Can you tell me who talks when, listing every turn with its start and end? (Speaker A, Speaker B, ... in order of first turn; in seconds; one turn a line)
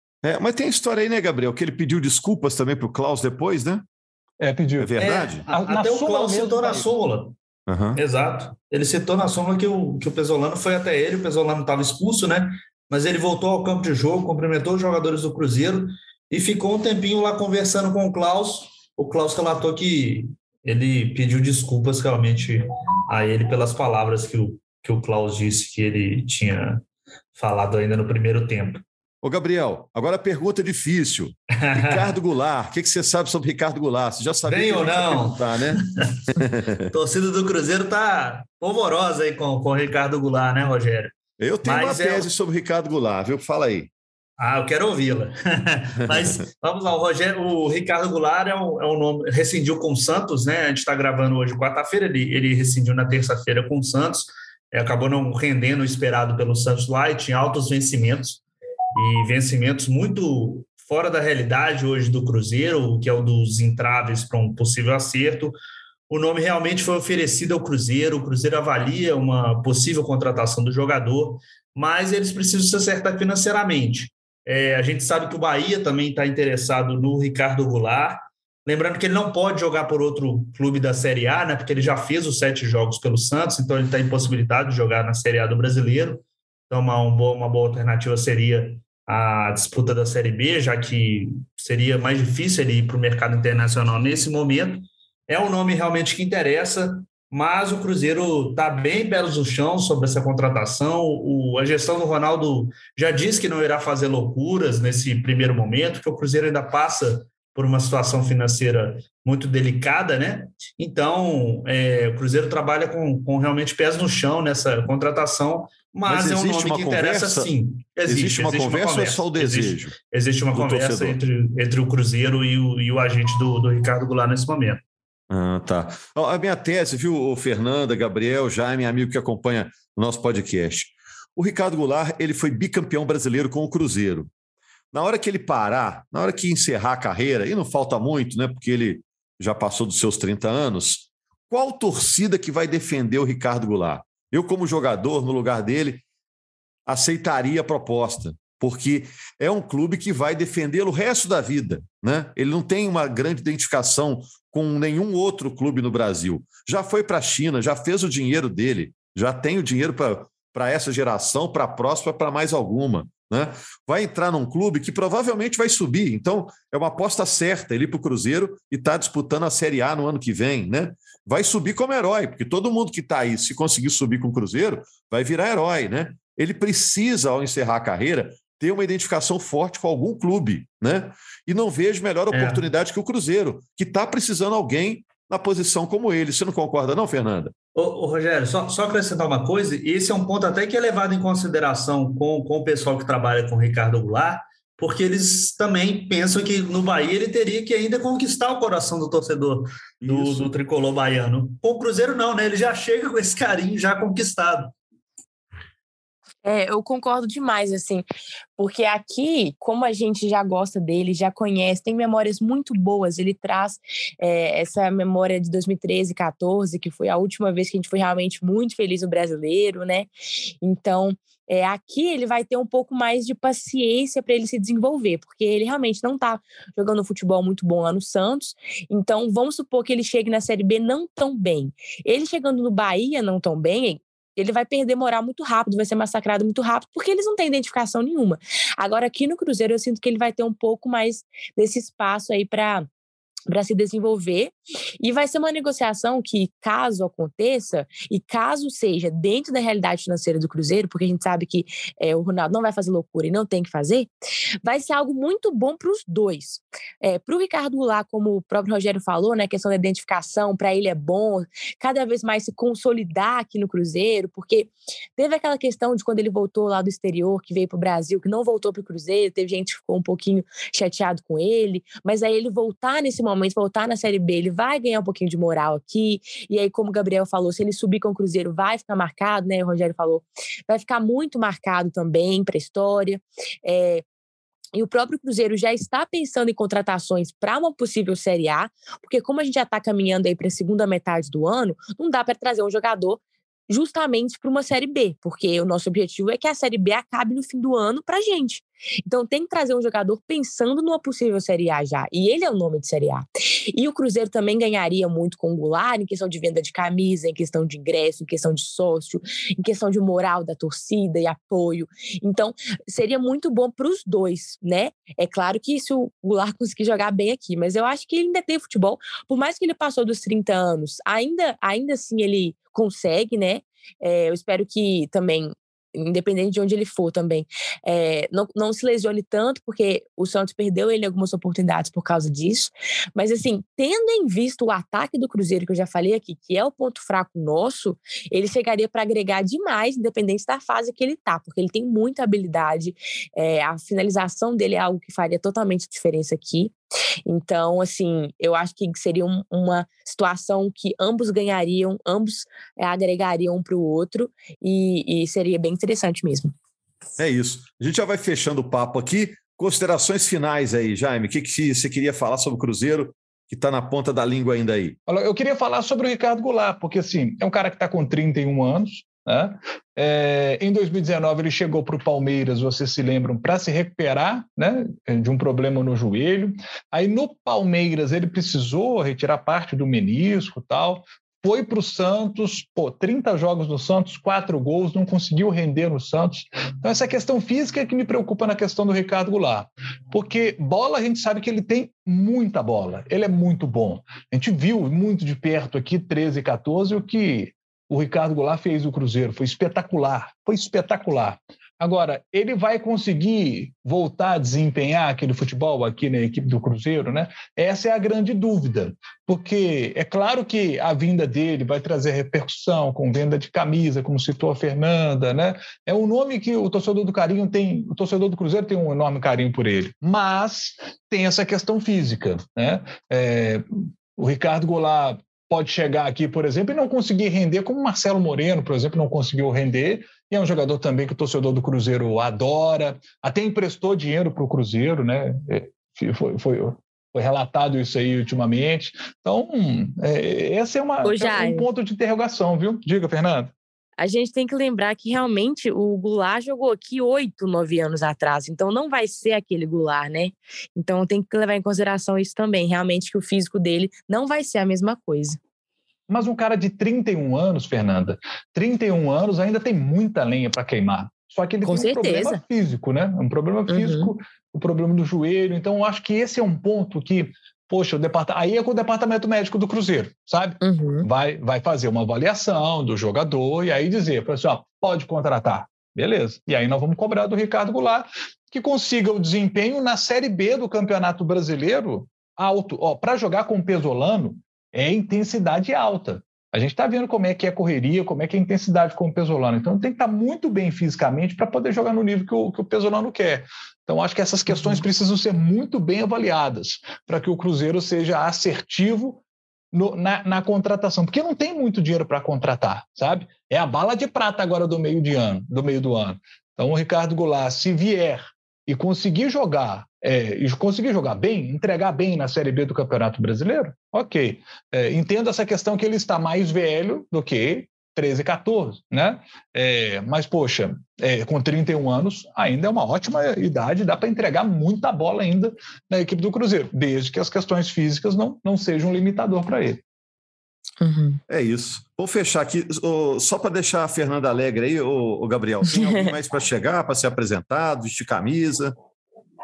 Speaker A: 0.2-3.9
Speaker B: 4.4-6.9
Speaker A: 4.8-5.4
Speaker C: 5.0-7.4
Speaker A: 7.7-8.0
Speaker C: 8.0-26.8
Speaker C: 27.4-28.8
Speaker A: 29.2-35.8
Speaker C: 31.7-32.0
Speaker C: 34.5-36.2
Speaker A: 36.3-36.9
Speaker C: 36.9-41.1
Speaker A: 41.4-43.9
Speaker C: 41.6-42.3
Speaker C: 44.4-58.4
Speaker C: 59.0-65.5
Speaker C: 66.1-124.8
Speaker A: 116.1-117.5
Speaker A: 118.1-120.0
Speaker A: 120.5-121.2
Speaker A: 125.3-134.3
Speaker A: 134.9-146.0
Speaker A: 146.9-187.5
Speaker C: 182.3-182.6
Speaker C: 187.8-204.7
Speaker A: 200.0-200.5
Speaker D: 206.4-208.1
Speaker D: 208.6-220.1
Speaker D: 220.6-242.9
Speaker D: 243.5-254.1
Speaker D: 254.6-284.0
Speaker D: 284.7-346.8
Speaker D: 347.3-356.5
Speaker A: 357.2-365.0
Speaker B: 365.1-443.5
Speaker D: 441.0-441.7
Speaker D: 444.0-455.4
Speaker B: 456.1-529.8
Speaker D: 461.6-462.4
Speaker D: 463.7-464.1
Speaker D: 470.6-471.1
Speaker D: 530.8-531.2
Speaker A: 531.3-538.7
Speaker D: 535.7-536.1